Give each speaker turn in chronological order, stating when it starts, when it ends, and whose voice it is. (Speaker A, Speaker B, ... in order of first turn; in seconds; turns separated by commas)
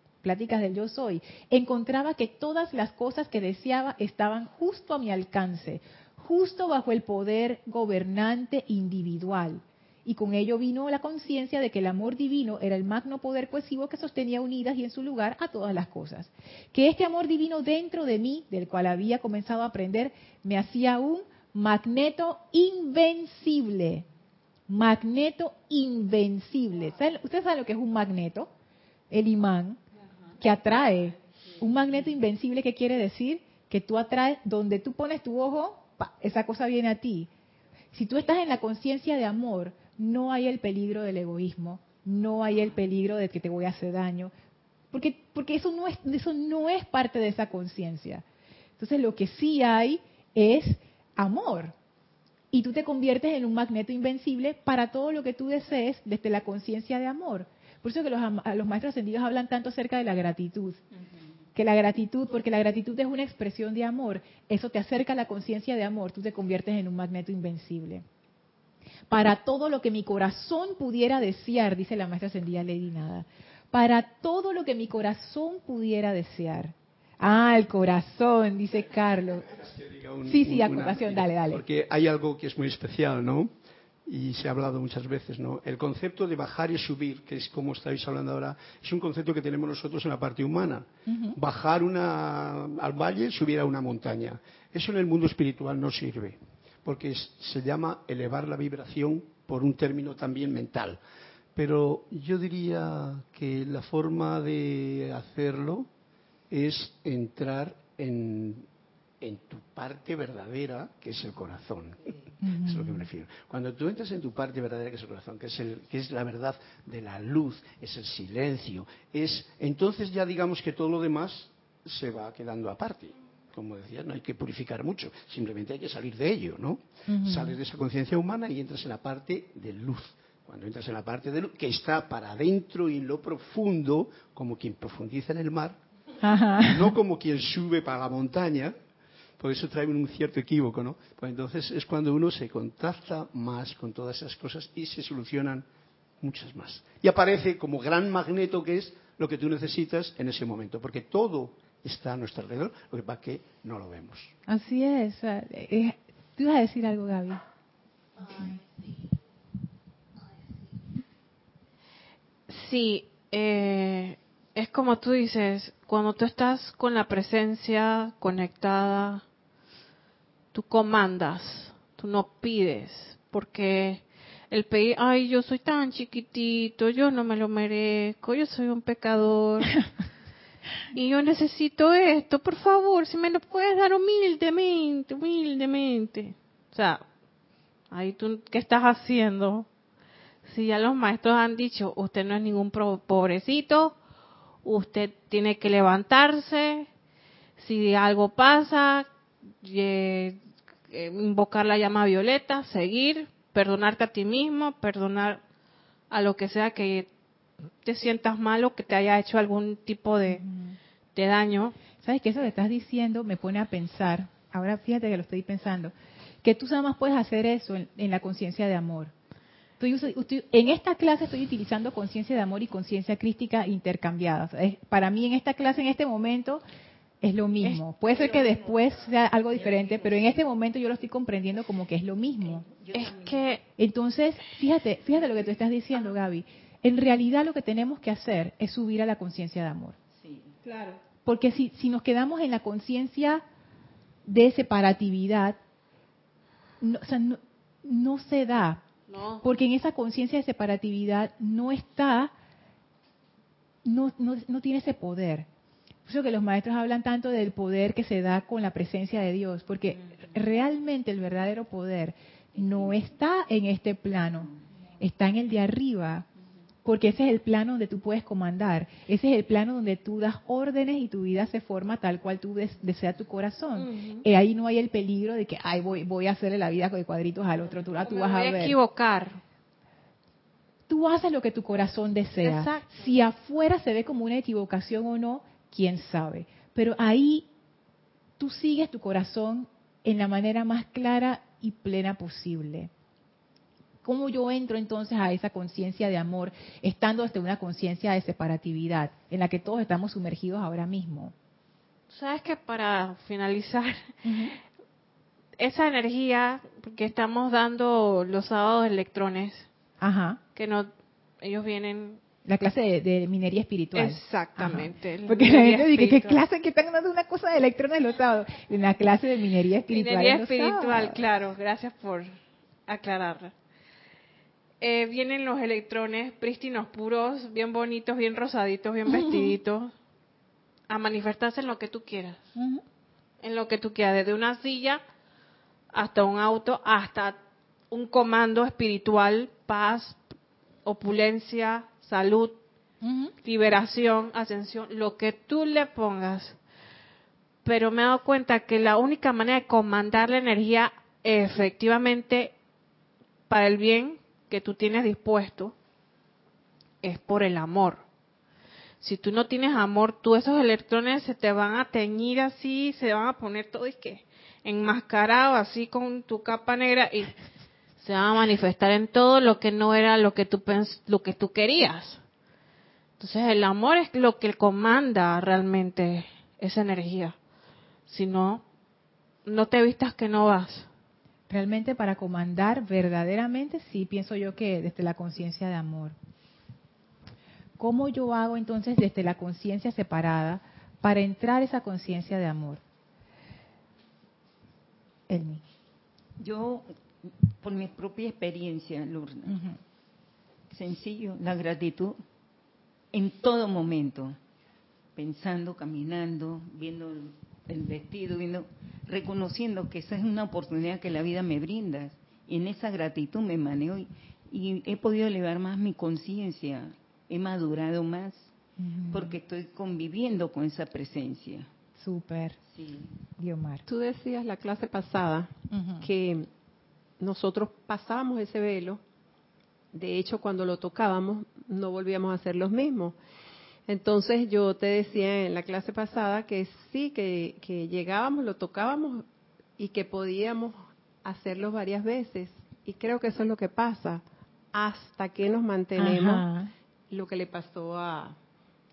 Speaker A: 0.2-24.1, Speaker A: 24.7-28.5, Speaker A: 29.1-29.8, Speaker A: 30.4-37.3, Speaker A: 37.9-44.3, Speaker A: 44.9-48.2, Speaker A: 48.8-51.7, Speaker A: 52.5-60.8, Speaker A: 61.5-68.0, Speaker A: 69.1-79.5, Speaker B: 79.5-83.5, Speaker A: 80.2-81.6, Speaker B: 84.0-101.0, Speaker A: 91.0-91.4, Speaker B: 101.5-105.9, Speaker B: 106.5-108.7, Speaker B: 109.2-135.8, Speaker A: 112.4-113.1, Speaker A: 127.1-127.6, Speaker A: 136.2-136.9, Speaker B: 136.6-138.7, Speaker B: 139.4-145.7, Speaker B: 146.2-154.3, Speaker A: 154.5-157.4, Speaker C: 158.2-158.6, Speaker C: 162.5-169.2, Speaker C: 170.5-179.8, Speaker C: 180.9-187.0, Speaker C: 187.9-189.7, Speaker C: 190.4-193.9, Speaker C: 194.6-196.9, Speaker C: 197.6-199.1, Speaker C: 199.6-200.4, Speaker C: 200.9-205.4, Speaker C: 206.1-207.1, Speaker C: 207.8-210.4, Speaker A: 210.3-210.8, Speaker C: 211.1-211.8, Speaker A: 212.0-219.1, Speaker A: 219.8-226.6, Speaker A: 227.2-232.7, Speaker D: 228.1-228.8, Speaker D: 229.5-230.4, Speaker D: 232.4-233.4, Speaker C: 232.9-233.6, Speaker A: 233.8-240.0, Speaker D: 240.1-240.6, Speaker A: 241.1-243.4, Speaker A: 244.2-245.6, Speaker A: 246.8-248.8, Speaker C: 249.1-249.4, Speaker A: 249.4-252.3, Speaker A: 253.8-255.5, Speaker A: 256.1-266.2, Speaker A: 266.8-278.8, Speaker C: 273.8-274.2, Speaker C: 278.0-279.4, Speaker A: 280.9-287.5, Speaker C: 282.4-282.9, Speaker A: 288.4-292.9, Speaker A: 294.0-301.3, Speaker C: 302.1-304.1, Speaker A: 304.2-304.5, Speaker C: 305.6-309.7, Speaker A: 310.0-310.4, Speaker C: 310.5-312.2, Speaker A: 312.4-321.2, Speaker C: 313.9-316.4, Speaker C: 319.9-322.3, Speaker C: 322.9-323.5, Speaker C: 324.8-329.9, Speaker A: 329.1-329.6, Speaker C: 330.9-332.4, Speaker A: 332.6-332.8, Speaker C: 333.4-335.0, Speaker C: 335.9-337.4, Speaker C: 337.9-340.2, Speaker C: 340.8-342.6, Speaker A: 343.0-343.3, Speaker C: 343.4-346.6, Speaker C: 347.6-352.5, Speaker C: 353.5-355.7, Speaker C: 357.0-358.0, Speaker C: 359.0-367.3, Speaker C: 368.0-372.2, Speaker C: 373.2-377.4, Speaker C: 378.1-378.6, Speaker C: 379.4-380.9, Speaker A: 381.5-386.1, Speaker A: 387.8-392.8, Speaker A: 395.3-395.6, Speaker D: 396.4-399.6, Speaker A: 399.5-399.8, Speaker D: 400.7-402.2, Speaker D: 403.1-404.4, Speaker D: 405.1-418.5, Speaker A: 418.8-419.4, Speaker D: 419.1-421.7, Speaker A: 422.0-422.6, Speaker D: 422.6-423.1, Speaker A: 423.4-423.8, Speaker E: 423.9-426.5, Speaker A: 425.7-426.1, Speaker E: 427.2-429.0, Speaker E: 429.9-433.2, Speaker E: 433.9-439.2, Speaker E: 439.8-446.5, Speaker A: 446.0-446.7, Speaker E: 447.1-448.4